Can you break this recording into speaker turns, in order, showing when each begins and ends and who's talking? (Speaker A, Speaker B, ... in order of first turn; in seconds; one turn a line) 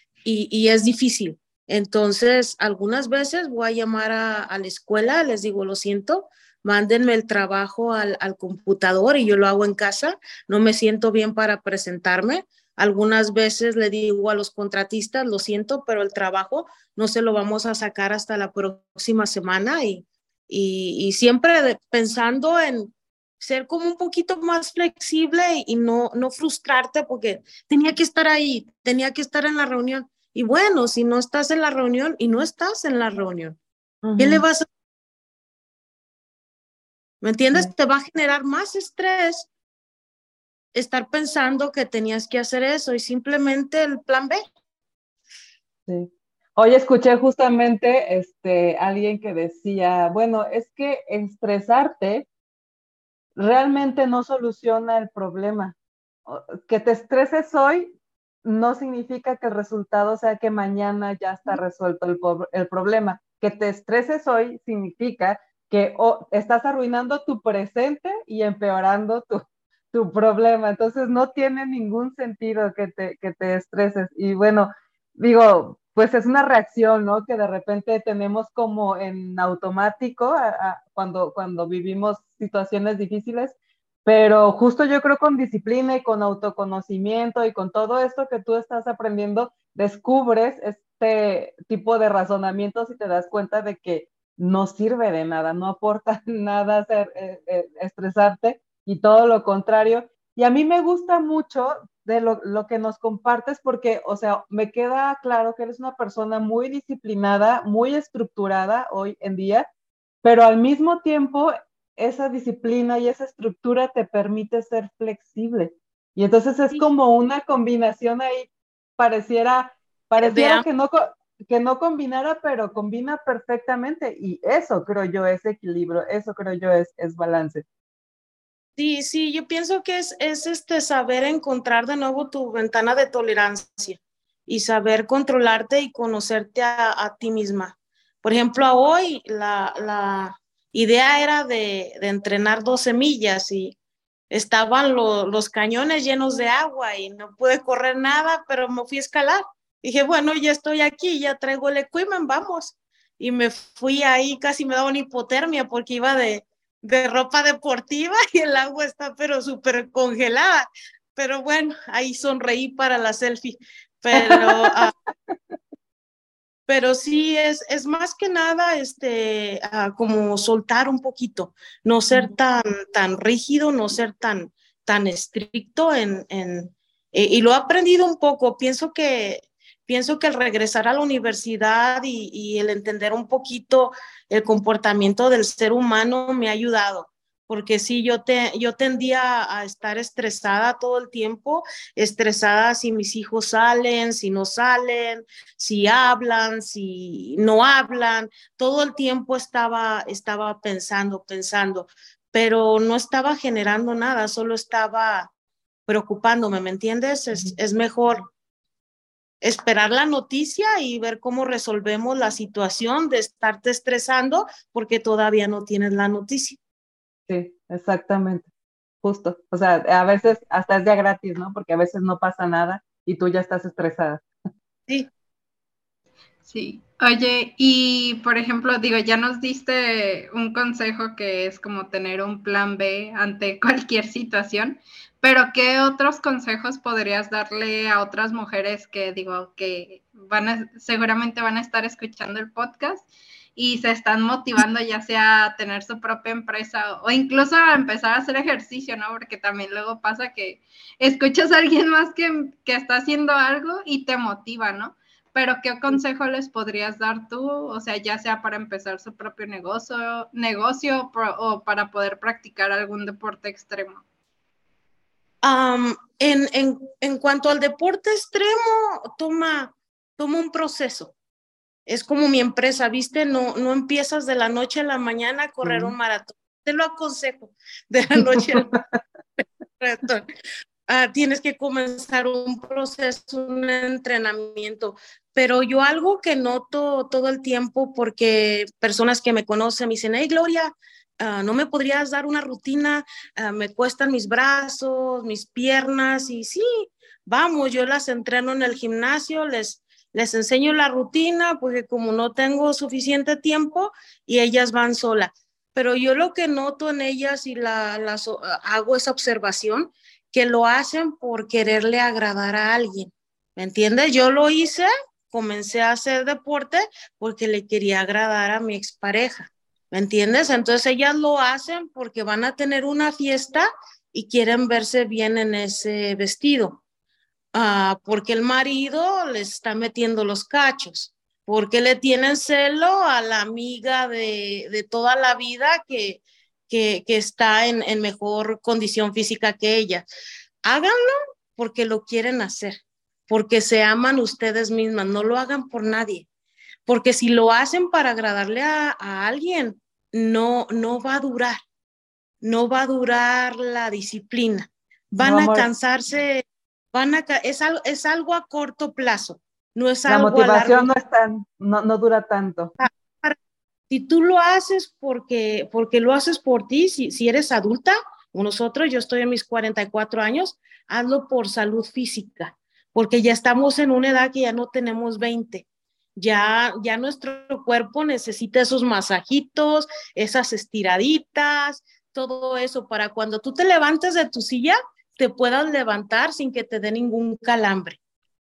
Speaker A: 0.2-33.6
Speaker B: 34.0-34.4
Speaker A: 34.2-34.6
Speaker A: 37.2-39.5
Speaker A: 40.7-44.4
Speaker B: 45.9-52.2
Speaker B: 53.4-109.7
Speaker B: 110.2-127.6
Speaker A: 120.2-120.6
Speaker A: 128.8-143.8
Speaker A: 144.3-164.9
Speaker B: 164.2-164.7
Speaker A: 166.7-205.3
Speaker A: 205.9-208.3
Speaker A: 209.4-216.6
Speaker B: 217.3-218.5
Speaker B: 219.0-224.2
Speaker C: 226.5-264.0
Speaker A: 265.4-271.1
Speaker A: 271.9-278.7
Speaker B: 275.6-275.9
Speaker B: 278.2-278.8
Speaker A: 279.4-280.2
Speaker A: 280.9-326.8
Speaker A: 327.5-340.0
Speaker A: 340.6-346.3
Speaker A: 346.9-351.6
Speaker A: 352.4-360.9
Speaker B: 355.2-355.7
Speaker B: 360.1-362.7
Speaker A: 362.8-363.4
Speaker A: 363.9-375.6
Speaker A: 376.2-388.0